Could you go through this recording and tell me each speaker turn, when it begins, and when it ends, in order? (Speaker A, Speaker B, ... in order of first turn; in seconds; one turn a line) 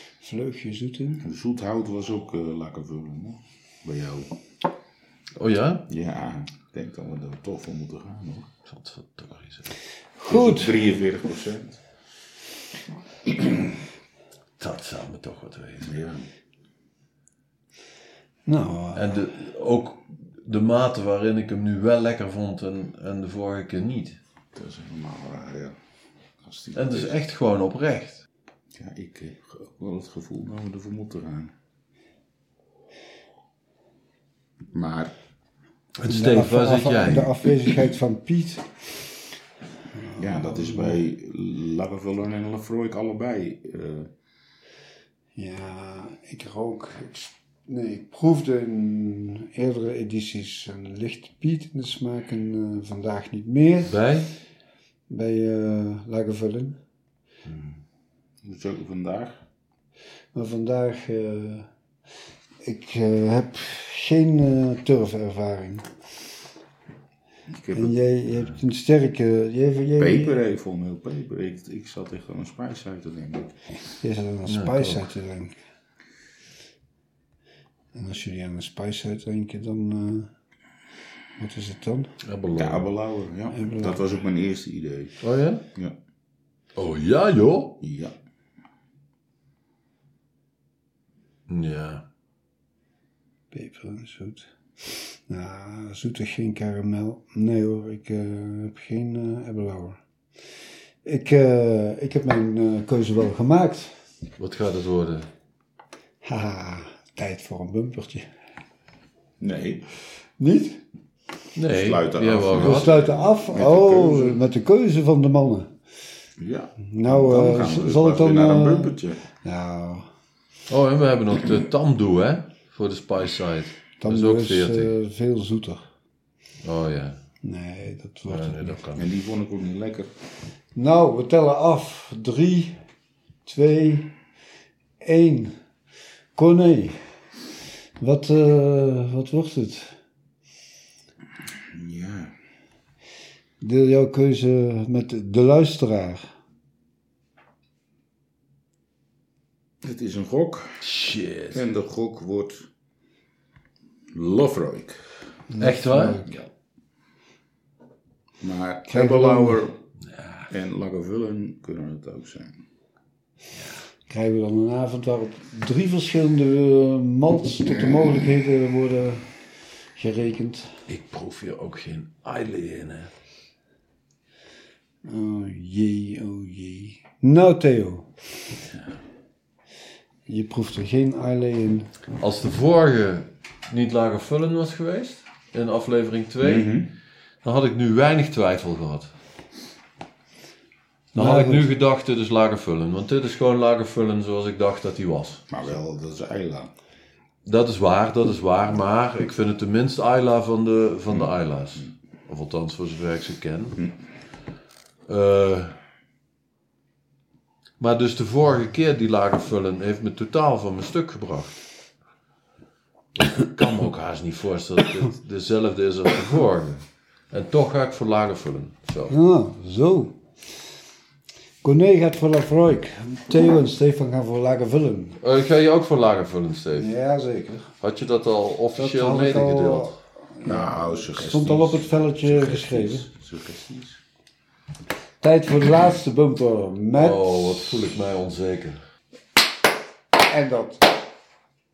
Speaker A: 0.2-1.2
Speaker B: 1.2-4.3
Speaker C: 5.4-5.9
Speaker B: 5.9-8.5
Speaker C: 8.7-9.7
Speaker A: 10.2-10.8
Speaker B: 10.2-11.8
Speaker C: 14.6-15.9
Speaker B: 15.8-16.2
Speaker A: 18.4-19.1
Speaker C: 18.9-24.2
Speaker B: 24.5-25.8
Speaker B: 26.4-27.1
Speaker C: 26.7-28.2
Speaker B: 28.8-31.5
Speaker B: 34.7-35.1
Speaker C: 36.0-37.4
Speaker A: 36.1-38.6
Speaker A: 40.0-41.0
Speaker B: 40.2-44.1
Speaker A: 45.4-53.9
Speaker C: 53.9-54.3
Speaker A: 55.1-56.8
Speaker B: 58.4-59.4
Speaker A: 60.3-61.7
Speaker A: 62.6-65.9
Speaker B: 67.5-68.0
Speaker A: 67.7-70.4
Speaker B: 70.0-73.5
Speaker A: 74.0-75.5
Speaker C: 74.5-75.1
Speaker A: 77.9-80.3
Speaker A: 81.4-82.1
Speaker C: 82.2-82.9
Speaker B: 82.5-85.2
Speaker A: 83.5-84.0
Speaker C: 85.2-85.6
Speaker C: 86.8-87.8
Speaker B: 87.8-88.1
Speaker C: 91.5-92.0
Speaker A: 93.5-100.0
Speaker A: 101.0-103.9
Speaker C: 104.4-105.3
Speaker A: 106.2-108.3
Speaker B: 109.4-109.8
Speaker A: 110.4-110.8
Speaker C: 111.5-112.9
Speaker B: 111.7-114.4
Speaker A: 112.5-115.7
Speaker B: 116.4-119.2
Speaker A: 116.8-120.1
Speaker C: 120.7-124.9
Speaker A: 124.0-125.8
Speaker C: 126.6-127.2
Speaker A: 127.4-128.8
Speaker C: 128.3-129.1
Speaker B: 129.0-130.1
Speaker A: 130.8-132.8
Speaker A: 133.4-134.1
Speaker A: 135.0-135.5
Speaker A: 136.3-137.0
Speaker A: 138.0-139.9
Speaker B: 141.7-142.3
Speaker A: 143.6-146.2
Speaker B: 149.8-150.8
Speaker C: 150.8-151.6
Speaker B: 151.5-152.7
Speaker B: 154.1-155.0
Speaker A: 155.5-156.3
Speaker C: 155.6-156.3
Speaker B: 158.4-159.8
Speaker A: 158.9-159.6
Speaker C: 160.1-160.5
Speaker B: 160.5-162.6
Speaker A: 164.1-169.2
Speaker B: 167.7-168.2
Speaker A: 169.9-170.8
Speaker C: 170.9-173.1
Speaker A: 175.0-178.1
Speaker A: 180.3-181.9
Speaker C: 182.2-186.7
Speaker B: 186.4-186.9
Speaker C: 187.4-189.1
Speaker C: 191.1-195.6
Speaker A: 191.1-191.7
Speaker B: 195.5-196.7
Speaker C: 197.4-203.8
Speaker C: 205.1-205.8
Speaker C: 207.8-211.6
Speaker C: 213.1-219.1
Speaker A: 219.1-220.2
Speaker A: 221.6-225.2
Speaker C: 225.2-226.9
Speaker A: 226.8-227.7
Speaker C: 227.8-229.9
Speaker A: 228.8-233.1
Speaker B: 230.4-234.0
Speaker A: 235.2-237.8
Speaker C: 236.9-238.8
Speaker A: 240.3-240.9